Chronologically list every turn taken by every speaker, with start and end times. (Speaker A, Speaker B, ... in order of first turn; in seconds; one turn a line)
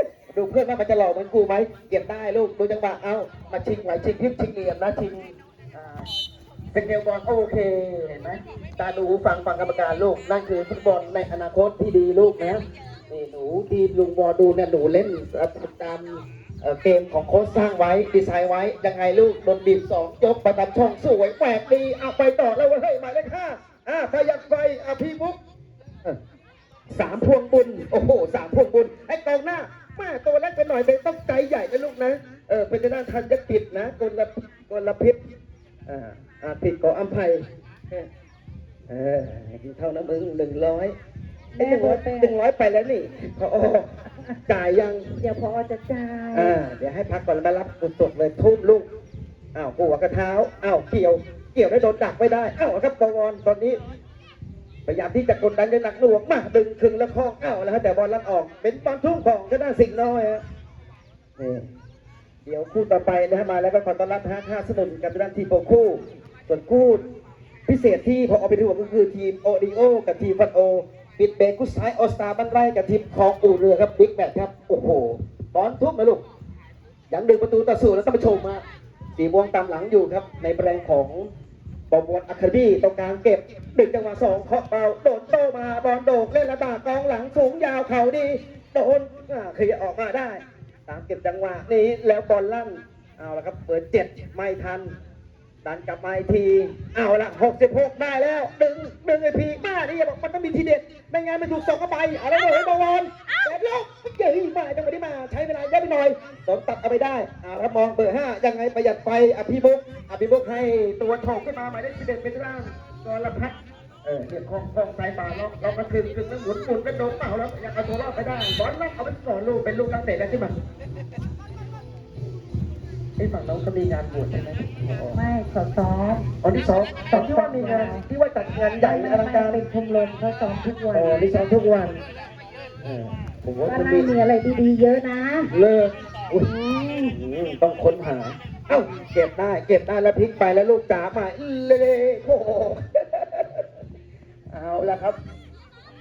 Speaker A: 0.3-6.1
Speaker A: 6.7-25.4
Speaker A: 26.9-35.2
Speaker A: 35.9-38.1
Speaker A: 38.9-40.9
Speaker A: 41.6-43.9
Speaker B: 41.6-42.4
Speaker A: 44.5-45.2
Speaker B: 45.2-46.6
Speaker A: 46.3-48.9
Speaker A: 49.5-53.8
Speaker A: 54.9-60.4
Speaker A: 61.4-61.7
Speaker A: 62.5-67.0
Speaker A: 67.7-76.2
Speaker A: 77.1-78.6
Speaker A: 79.2-81.3
Speaker A: 81.9-94.9
Speaker A: 95.6-120.5
Speaker A: 123.2-125.2
Speaker B: 125.1-126.3
Speaker A: 126.4-129.6
Speaker B: 127.1-128.0
Speaker B: 128.8-131.3
Speaker A: 130.9-132.0
Speaker A: 132.8-134.1
Speaker B: 133.6-135.5
Speaker A: 135.5-136.5
Speaker B: 136.3-137.2
Speaker A: 137.1-143.7
Speaker A: 144.5-145.2